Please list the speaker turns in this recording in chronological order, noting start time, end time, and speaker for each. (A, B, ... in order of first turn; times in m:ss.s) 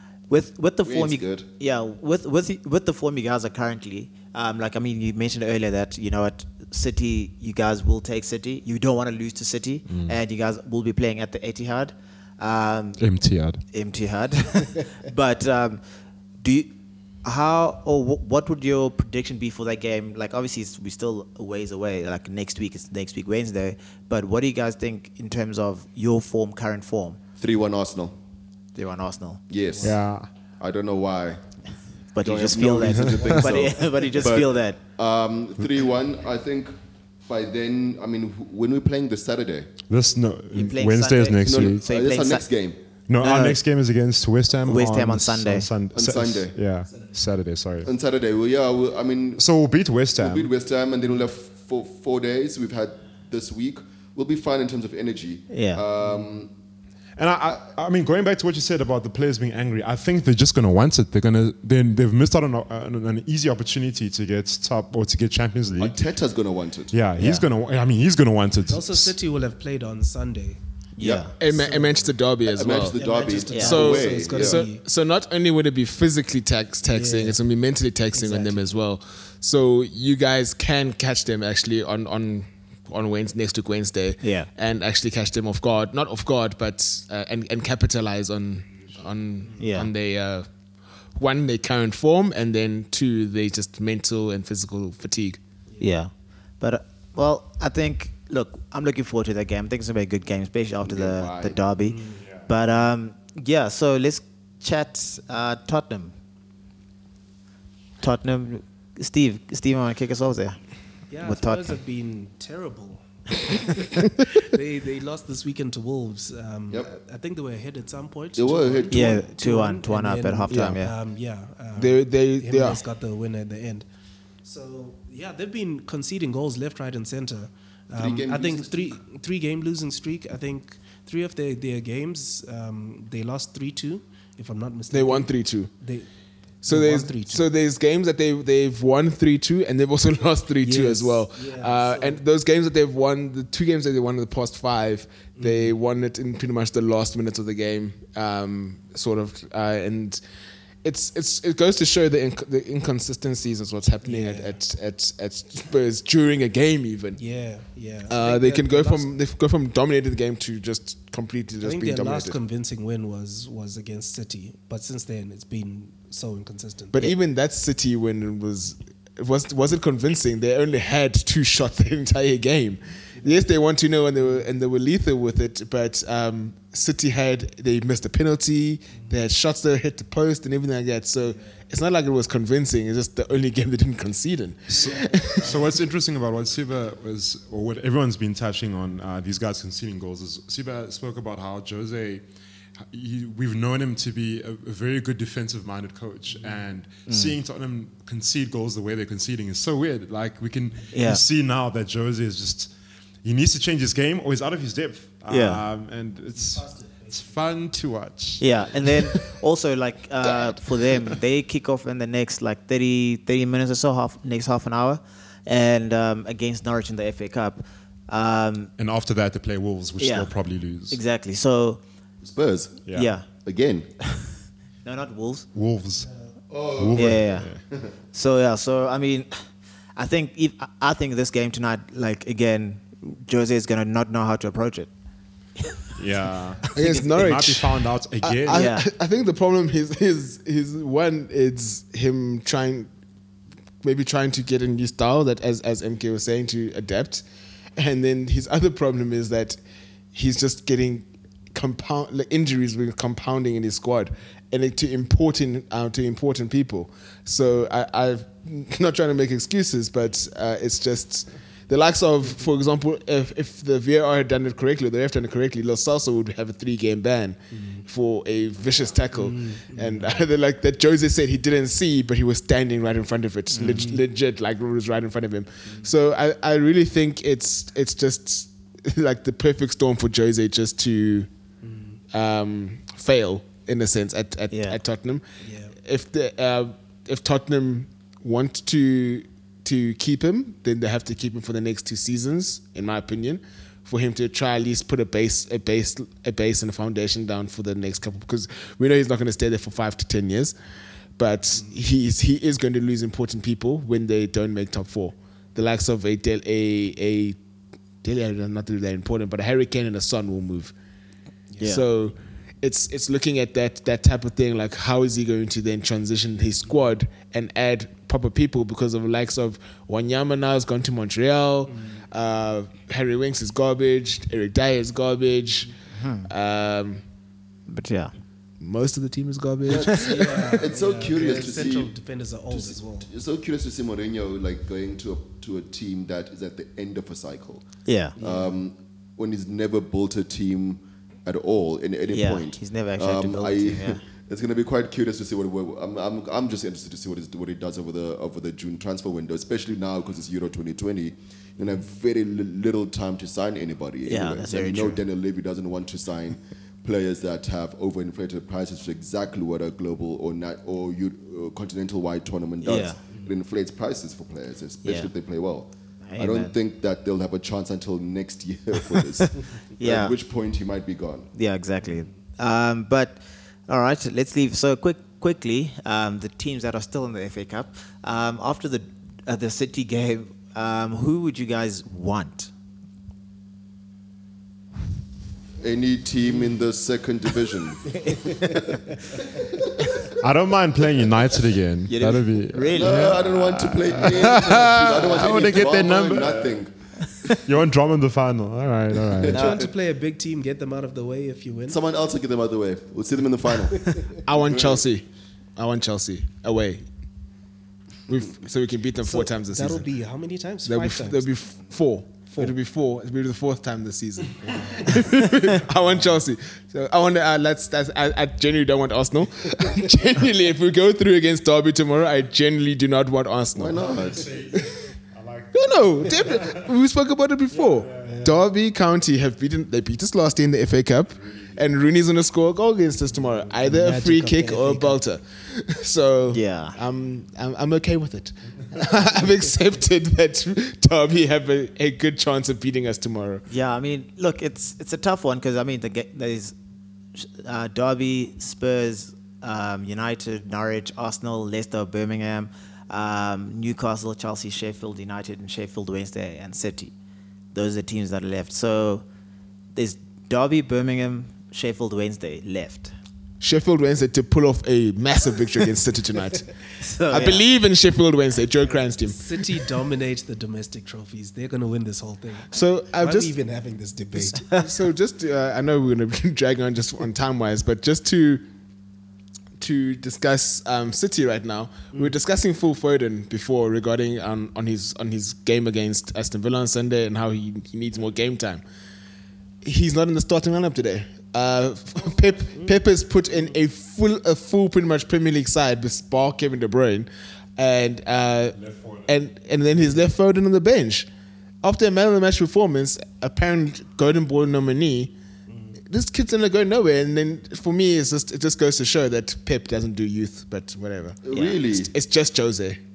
0:00.3-0:13.0 A
0:00.8-0:01.5 B
0:09.9-0:10.2 C
0:13.0-0:13.6 C
0:13.7-0:15.8 A
0:16.4-0:16.7 A
0:17.2-0:27.2 A
0:27.4-0:28.1 B
0:28.7-0:29.4 A
0:29.5-0:30.0 B
0:29.8-0:30.3 C
0:30.6-0:31.4 B
0:32.1-0:34.8 A
0:32.2-0:36.7 B
0:32.8-0:33.4 C
0:37.2-0:39.7 B
0:39.9-0:41.8 C
0:40.5-0:42.4 A
0:41.4-0:42.8 B
0:43.1-0:47.9 C
0:43.2-0:43.6 A
0:44.7-0:45.7 A
0:45.9-0:46.6 B
0:47.8-0:49.5 B
0:49.4-0:50.5 C
0:50.2-0:56.5 B
0:55.5-0:55.8 A
0:57.2-1:06.0 C
1:05.8-1:06.9 B
1:06.9-1:09.1 C
1:07.2-1:07.4 A
1:08.7-1:10.6 D
1:11.0-1:11.3 A
1:11.0-1:11.3 B
1:11.4-1:12.9 E
1:11.4-1:12.1 D
1:12.4-1:14.6 B
1:12.6-1:14.8 D
1:13.5-1:13.8 A
1:13.6-1:30.4 E
1:16.9-1:17.4 D
1:18.1-1:18.7 D
1:24.2-1:24.5 A
1:29.6-1:29.9 A
1:31.2-1:35.4 E
1:35.8-1:46.1 A
1:40.8-1:41.6 B
1:41.8-1:42.2 D
1:48.0-1:50.6 A
1:51.1-2:03.8 D
1:51.2-1:51.7 A
1:58.3-1:59.2 B
1:58.9-2:00.9 A
2:00.5-2:00.8 E
2:01.8-2:02.8 E
2:04.4-2:16.0 D
2:08.0-2:09.0 B
2:14.9-2:15.7 E
2:16.6-2:30.2 E
2:16.7-2:17.4 D
2:20.6-2:22.2 D
2:25.4-2:25.8 D
2:30.8-2:37.2 E
2:34.0-2:34.6 D
2:37.2-2:39.1 D
2:38.1-2:42.4 E
2:41.6-2:47.0 D
2:46.9-3:05.5 E
2:53.1-2:53.6 D
3:04.7-3:12.2 C
3:04.8-3:05.5 D
3:12.9-3:22.7 C
3:17.1-3:17.4 A
3:20.9-3:21.2 A
3:23.2-3:28.9 C
3:25.3-3:25.6 A
3:26.3-3:27.4 D
3:28.4-3:38.7 A
3:30.2-3:31.1 E
3:38.8-3:41.0 C
3:40.0-3:40.3 A
3:40.9-3:41.8 A
3:42.2-3:42.8 B
3:42.9-3:43.2 A
3:43.4-3:43.9 B
3:44.8-3:45.5 A
3:45.5-3:46.1 C
3:46.5-3:47.8 B
3:46.8-3:47.6 C
3:46.9-3:47.5 A
3:48.1-3:49.4 A
3:50.0-3:54.9 A
3:56.0-3:58.7 C
3:56.7-3:57.2 A
3:56.8-4:02.9 E
3:58.5-3:58.9 A
4:03.8-4:07.2 E
4:07.8-4:09.6 E
4:10.1-4:41.3 E
4:27.5-4:27.8 D
4:29.1-4:30.2 D
4:33.5-4:33.9 A
4:33.6-4:34.0 D
4:41.6-4:42.0 D
4:42.1-4:45.2 E
4:44.5-4:44.8 A
4:45.4-4:45.8 D
4:45.8-5:00.5 E
5:01.2-5:07.4 E
5:08.0-5:10.7 E
5:11.6-5:25.7 E
5:21.7-5:22.0 D
5:25.9-5:26.3 A
5:26.3-5:27.0 E
5:27.7-5:28.1 A
5:28.6-5:30.4 E
5:29.6-5:31.9 B
5:29.9-5:33.1 D
5:32.5-5:37.6 B
5:37.9-5:38.1 A
5:38.2-5:38.5 D
5:38.2-6:11.3 B
5:42.1-5:44.0 A
5:54.1-5:55.0 A
6:02.6-6:03.0 A
6:04.8-6:05.1 A
6:06.1-6:06.5 A
6:09.8-6:10.1 A
6:11.3-6:22.5 A
6:25.6-6:30.0 B
6:30.2-6:36.6 C
6:31.9-6:33.3 A
6:32.7-6:36.7 B
6:37.3-6:39.6 C
6:39.1-6:39.7 B
6:39.3-6:41.8 D
6:41.7-6:44.8 B
6:44.2-6:45.0 E
6:45.6-6:46.8 E
6:48.1-6:49.9 E
6:49.0-6:51.3 D
6:50.6-7:03.8 E
6:52.3-6:52.5 D
6:54.4-6:54.8 C
7:03.6-7:04.3 B
7:04.0-7:06.7 C
7:05.5-7:23.4 E
7:07.5-7:08.2 C
7:08.0-7:08.3 D
7:11.2-7:11.6 C
7:13.6-7:15.0 D
7:16.3-7:16.8 A
7:23.5-7:26.5 A
7:27.2-7:36.9 A
7:37.5-7:39.0 A
7:39.7-7:42.9 A
7:43.4-7:46.5 E
7:46.8-7:47.4 A
7:47.1-7:49.2 E
7:48.7-7:54.4 D
7:52.5-7:53.3 E
7:54.4-7:58.4 E
7:59.6-8:08.6 E
8:09.6-8:21.1 E
8:18.5-8:19.1 C
8:21.6-8:25.1 E
8:25.9-8:32.8 E
8:31.2-8:31.9 B
8:31.3-8:31.6 A